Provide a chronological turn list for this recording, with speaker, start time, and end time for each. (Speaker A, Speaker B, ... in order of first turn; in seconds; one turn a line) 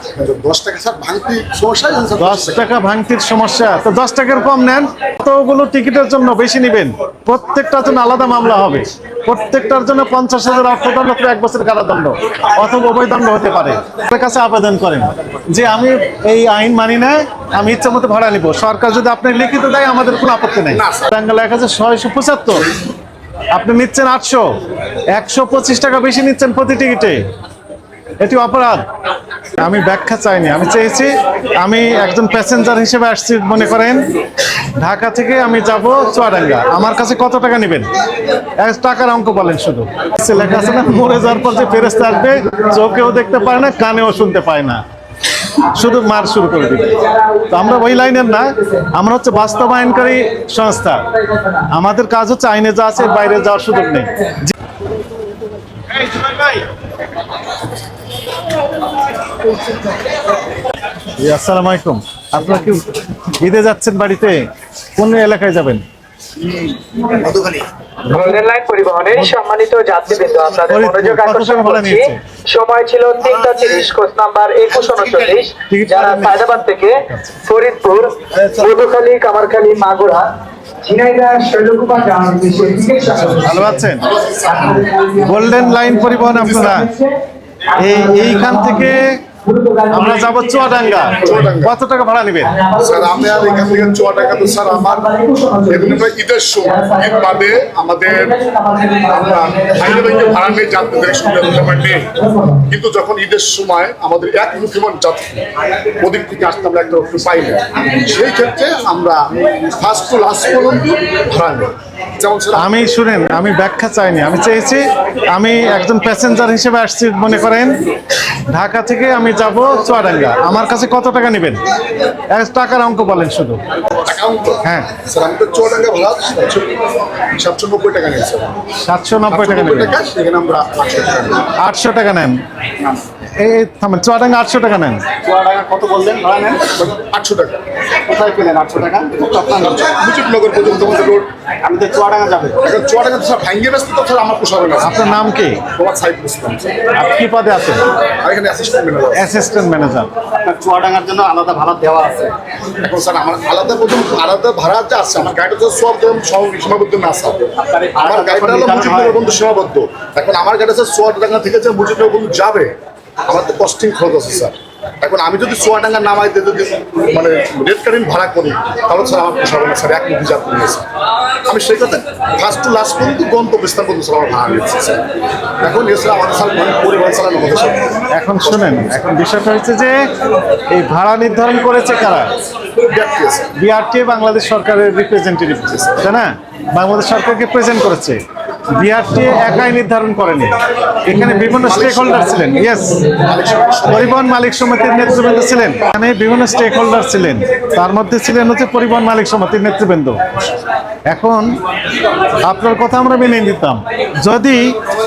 Speaker A: 0.1-2.7
Speaker B: 2.2-22.7
Speaker A: 20.7-21.1
Speaker B: 23.5-24.5
Speaker B: 25.1-27.2
Speaker B: 28.2-28.9
Speaker B: 29.6-34.1
Speaker B: 34.8-37.9
Speaker B: 38.6-44.8
Speaker B: 45.6-51.1
Speaker C: 46.4-48.9
Speaker C: 51.1-51.7
Speaker B: 51.7-54.5
Speaker C: 53.4-54.4
Speaker B: 56.0-56.6
Speaker B: 61.2-65.8
Speaker C: 67.1-80.3
Speaker B: 70.7-72.2
Speaker B: 75.7-77.4
Speaker B: 78.3-78.7
Speaker C: 80.8-83.8
Speaker B: 83.4-84.1
Speaker A: 84.0-84.7
Speaker C: 84.5-87.2
Speaker B: 85.2-86.9
Speaker C: 87.7-91.4
Speaker B: 87.8-89.2
Speaker B: 89.9-92.5
Speaker A: 91.2-91.7
Speaker C: 92.5-96.0
Speaker A: 92.8-95.1
Speaker A: 95.7-98.4
Speaker C: 96.7-97.5
Speaker C: 98.2-101.1
Speaker A: 99.1-112.7
Speaker C: 102.1-102.6
Speaker B: 112.5-117.8
Speaker B: 118.5-121.6
Speaker B: 122.3-123.6
Speaker A: 124.0-128.6
Speaker B: 124.6-124.9
Speaker B: 128.8-129.9
Speaker A: 129.3-131.5
Speaker B: 131.6-132.4
Speaker B: 133.4-135.1
Speaker D: 135.2-136.8
Speaker A: 136.8-137.6
Speaker D: 138.0-139.8
Speaker A: 139.8-141.3
Speaker D: 141.6-142.6
Speaker A: 142.6-145.1
Speaker B: 144.8-145.6
Speaker A: 145.6-146.8
Speaker B: 146.9-147.8
Speaker A: 148.2-149.3
Speaker B: 149.1-150.1
Speaker D: 150.4-152.3
Speaker A: 152.8-162.7
Speaker D: 157.6-159.3
Speaker A: 163.3-170.9
Speaker A: 171.4-175.0
Speaker A: 175.6-179.0
Speaker B: 178.1-180.0
Speaker B: 180.7-182.3
Speaker A: 182.8-183.5
Speaker B: 183.6-188.2
Speaker B: 188.7-193.0
Speaker A: 191.6-192.4
Speaker C: 192.7-193.2
Speaker A: 193.1-194.2
Speaker B: 193.9-200.2
Speaker B: 201.1-201.6
Speaker B: 202.4-204.8